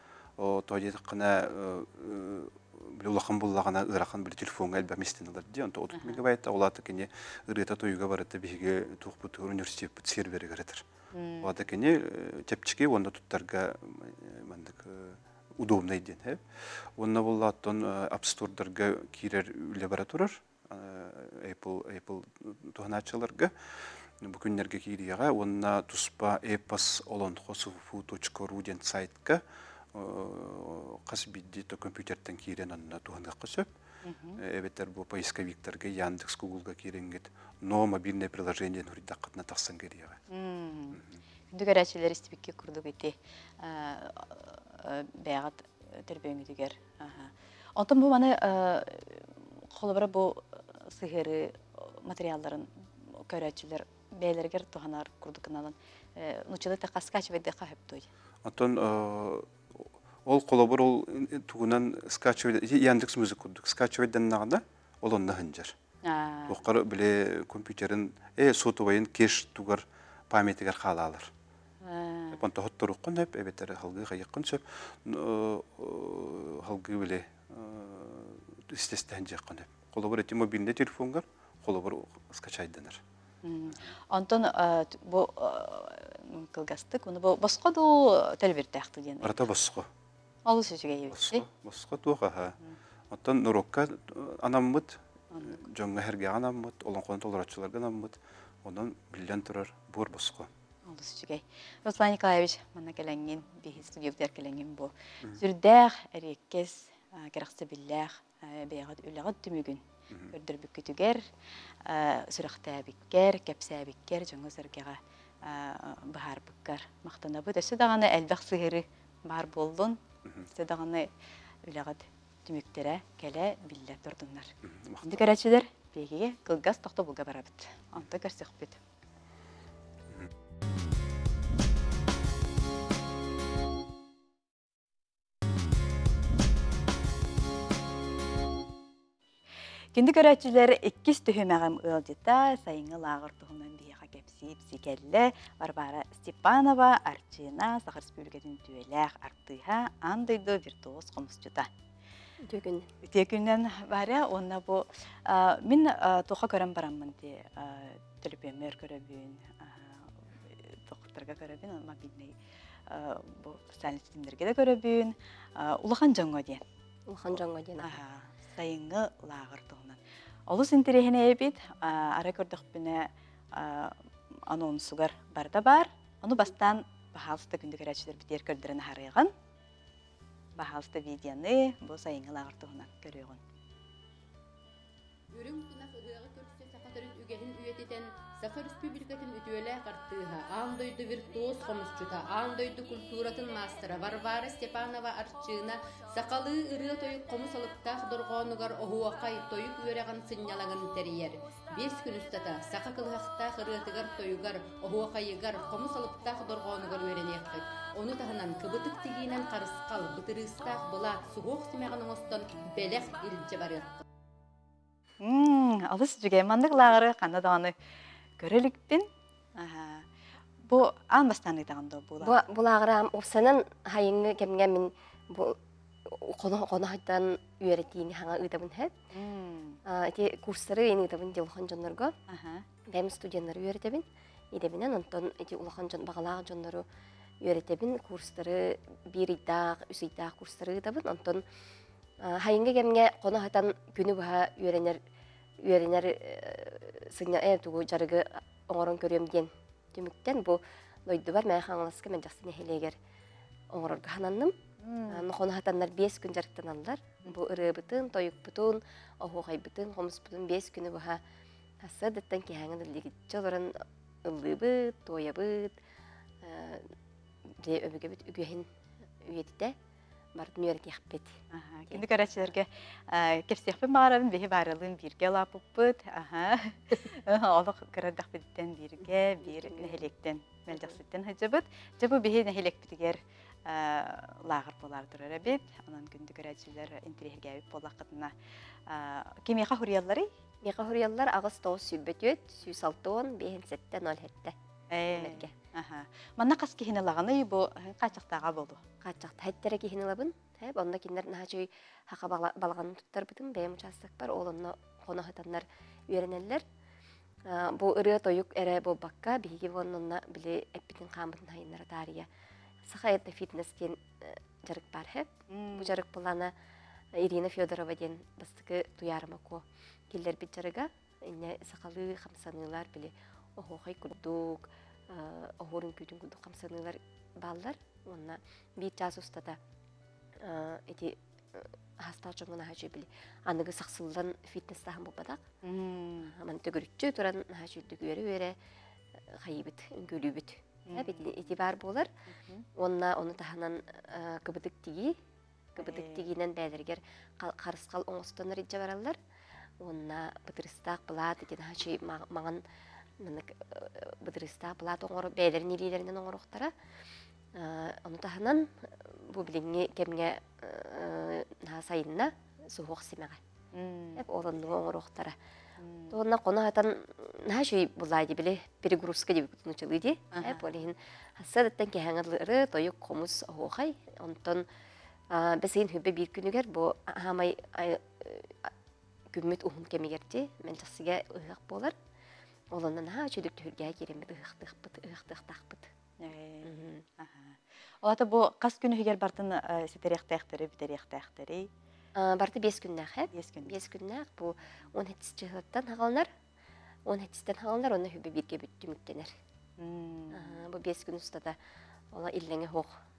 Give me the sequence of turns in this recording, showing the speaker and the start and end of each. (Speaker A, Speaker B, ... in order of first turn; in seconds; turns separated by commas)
Speaker A: 0.4-10.8, Speaker B: 5.9-6.2, Speaker B: 11.1-11.5, Speaker A: 11.4-23.5, Speaker A: 24.2-29.4, Speaker A: 29.9-33.7, Speaker B: 34.0-34.4, Speaker A: 34.4-40.2, Speaker B: 40.3-41.0, Speaker A: 40.9-41.2, Speaker B: 41.5-58.1, Speaker A: 58.4-65.7, Speaker B: 66.0-66.6, Speaker A: 66.5-71.3, Speaker B: 71.8-72.4, Speaker A: 72.3-83.0, Speaker B: 83.4-89.5, Speaker A: 89.2-89.9, Speaker B: 90.5-91.4, Speaker A: 91.1-92.5, Speaker A: 93.1-100.5, Speaker B: 95.3-95.6, Speaker B: 100.8-111.2, Speaker B: 111.8-121.1, Speaker B: 121.6-128.8, Speaker A: 124.6-125.2, Speaker B: 139.9-151.7, Speaker C: 152.4-152.8, Speaker B: 153.0-162.4, Speaker B: 162.9-166.6, Speaker C: 167.1-167.9, Speaker B: 167.8-179.3, Speaker B: 180.6-183.4, Speaker D: 185.3-214.0, Speaker B: 215.2-217.7, Speaker B: 218.4-220.1, Speaker B: 220.6-222.3, Speaker C: 222.2-228.9, Speaker B: 229.1-229.8, Speaker C: 229.8-232.1, Speaker B: 232.3-232.6, Speaker C: 232.9-236.8, Speaker C: 237.4-241.4, Speaker C: 242.2-245.0, Speaker C: 245.6-253.0, Speaker C: 253.7-254.5, Speaker B: 254.8-255.2, Speaker C: 255.1-261.2, Speaker C: 261.8-265.8, Speaker C: 266.4-266.9, Speaker C: 267.6-268.7, Speaker C: 269.2-269.8, Speaker C: 270.3-271.4, Speaker B: 271.5-288.3, Speaker C: 279.4-280.0, Speaker B: 288.9-290.3, Speaker C: 290.6-294.6, Speaker B: 294.9-298.8, Speaker C: 295.1-295.5, Speaker C: 299.0-306.6, Speaker C: 307.5-312.3, Speaker C: 312.9-316.5, Speaker B: 315.5-316.0, Speaker C: 317.1-329.6, Speaker C: 330.4-335.4, Speaker B: 335.6-336.3, Speaker C: 336.2-338.6, Speaker C: 339.4-342.1, Speaker B: 340.9-341.6, Speaker B: 342.3-342.7, Speaker C: 342.8-345.2, Speaker C: 345.8-349.2, Speaker B: 345.8-346.3, Speaker C: 349.8-352.6, Speaker C: 353.2-356.7, Speaker C: 357.5-363.4, Speaker B: 363.7-364.2, Speaker C: 364.2-365.4, Speaker B: 365.8-366.1, Speaker C: 366.1-374.7, Speaker B: 370.3-370.6, Speaker C: 375.3-378.7, Speaker C: 379.3-381.9, Speaker C: 382.7-385.9, Speaker B: 386.2-391.7, Speaker C: 386.6-387.0, Speaker C: 392.1-396.3, Speaker B: 393.3-393.8, Speaker C: 397.1-399.3, Speaker B: 399.8-400.6, Speaker C: 400.3-401.6, Speaker C: 402.1-402.9